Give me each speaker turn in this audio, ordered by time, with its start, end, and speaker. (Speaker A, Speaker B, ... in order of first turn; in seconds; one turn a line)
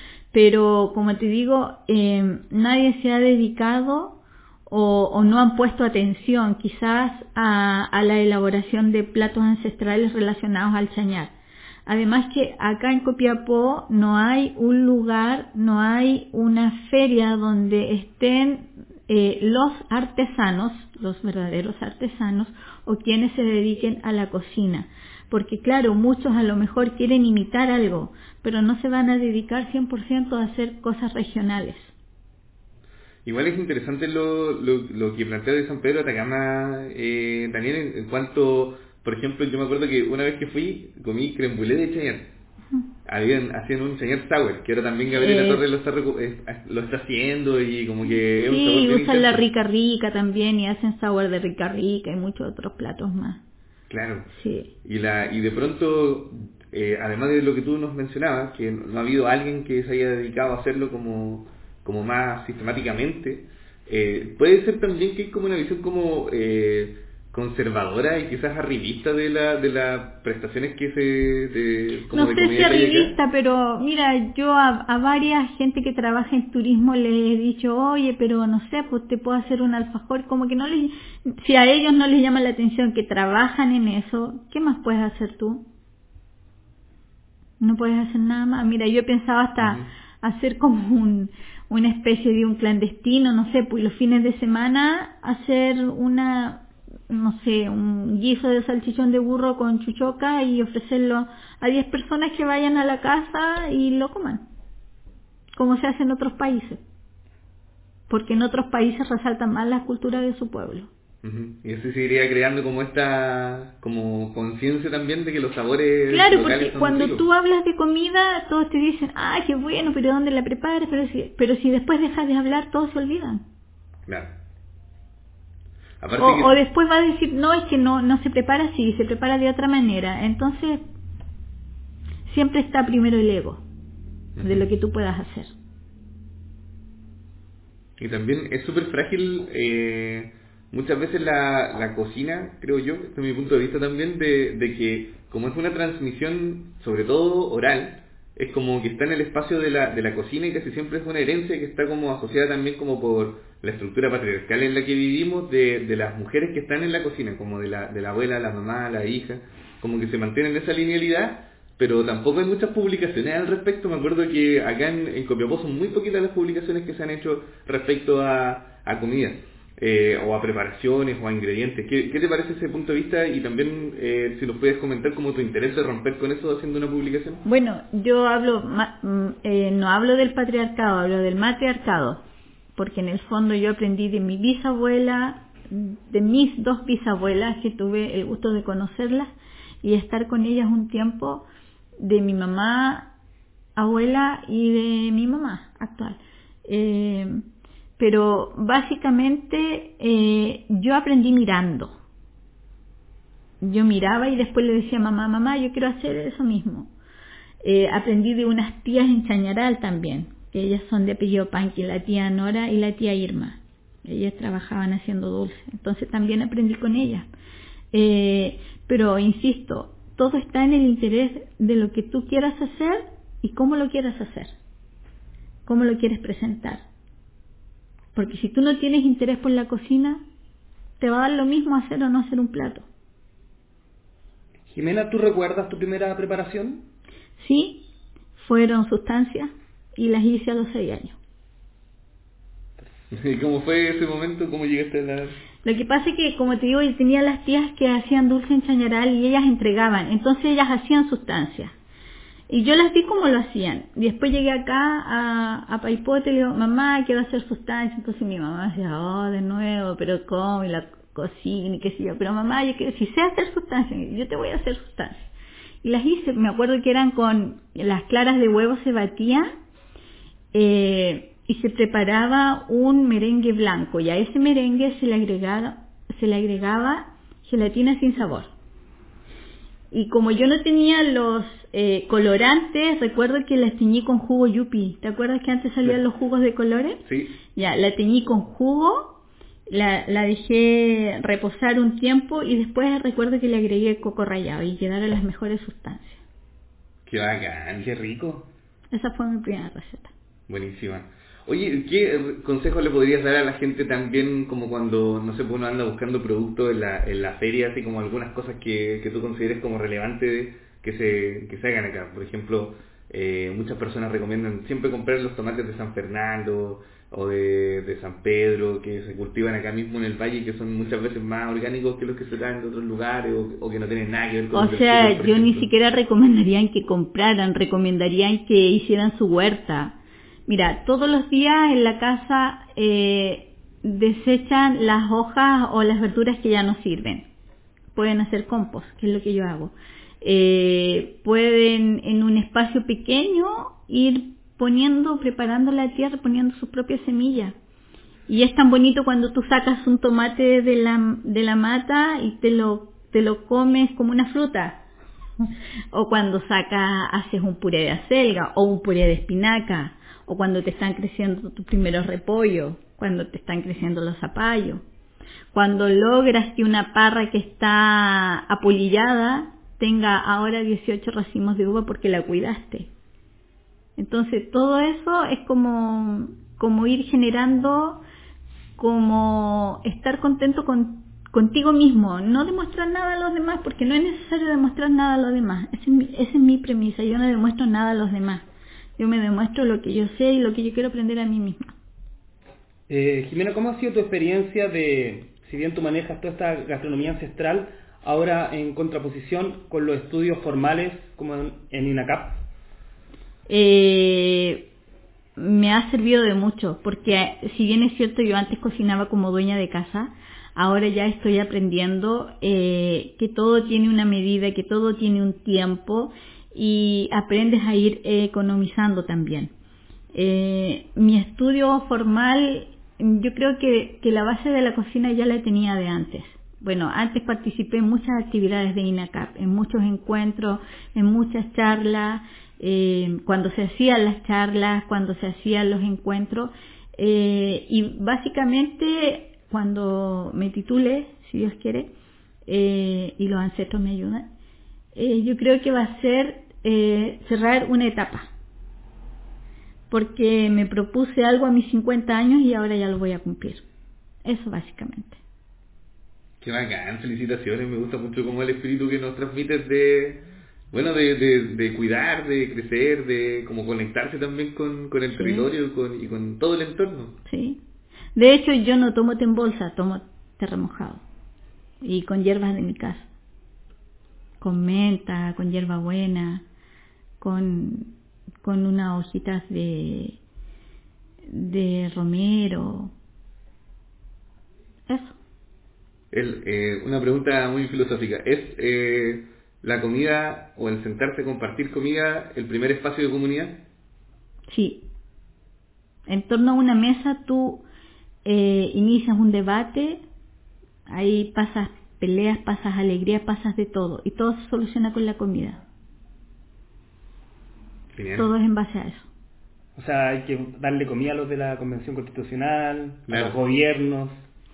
Speaker A: 0.3-11.3
Speaker A: 11.9-31.9
Speaker B: 33.3-42.3
Speaker B: 43.1-49.4
Speaker A: 45.1-45.6
Speaker A: 48.5-53.4
Speaker B: 53.9-54.3
Speaker A: 54.3-54.7
Speaker B: 54.8-73.2
Speaker A: 72.1-85.7
Speaker A: 87.6-104.4
Speaker A: 105.6-106.8
Speaker A: 108.1-110.9
Speaker B: 111.2-117.2
Speaker A: 116.1-123.4
Speaker B: 124.1-124.3
Speaker B: 126.0-126.6
Speaker A: 126.2-130.8
Speaker A: 132.3-133.6
Speaker B: 134.4-134.7
Speaker A: 134.4-135.5
Speaker B: 138.0-177.4
Speaker A: 177.4-182.2
Speaker A: 182.8-189.3
Speaker A: 189.8-191.5
Speaker A: 192.0-193.1
Speaker A: 193.8-197.4
Speaker A: 198.0-201.9
Speaker A: 203.6-206.9
Speaker A: 207.6-217.3
Speaker A: 217.9-224.5
Speaker A: 225.7-226.8
Speaker A: 228.2-230.2
Speaker A: 231.0-232.8
Speaker C: 234.7-236.9
Speaker A: 237.4-237.9
Speaker A: 238.4-241.2
Speaker B: 243.1-245.4
Speaker A: 245.6-251.7
Speaker A: 252.5-265.2
Speaker A: 265.8-269.5
Speaker A: 270.5-278.5
Speaker A: 279.9-287.0
Speaker B: 287.1-287.4
Speaker A: 287.5-296.2
Speaker B: 297.1-297.9
Speaker C: 297.8-298.5
Speaker A: 298.9-300.1
Speaker B: 300.5-325.7
Speaker A: 324.5-329.9
Speaker A: 330.5-337.3
Speaker A: 337.9-347.6
Speaker A: 348.3-354.8
Speaker A: 355.9-364.8
Speaker A: 365.5-372.9
Speaker A: 374.0-378.0
Speaker A: 378.8-388.4
Speaker A: 389.0-391.7
Speaker C: 392.9-402.4
Speaker A: 403.5-404.7
Speaker A: 405.4-419.5
Speaker A: 420.1-441.9
Speaker A: 442.5-444.3
Speaker A: 444.9-448.3
Speaker A: 449.9-453.6
Speaker A: 454.2-455.2
Speaker B: 456.4-467.2
Speaker A: 465.1-465.5
Speaker A: 467.3-467.6
Speaker A: 468.1-471.0
Speaker A: 471.8-473.1
Speaker A: 474.4-476.4
Speaker A: 477.2-477.9
Speaker A: 478.4-480.2
Speaker A: 481.3-482.9
Speaker A: 484.9-485.2
Speaker B: 486.1-493.6
Speaker A: 494.5-494.9
Speaker A: 496.1-497.6
Speaker A: 498.2-500.0
Speaker A: 500.9-505.6
Speaker B: 507.9-508.3
Speaker A: 508.2-509.1
Speaker C: 509.8-514.2
Speaker B: 513.1-513.4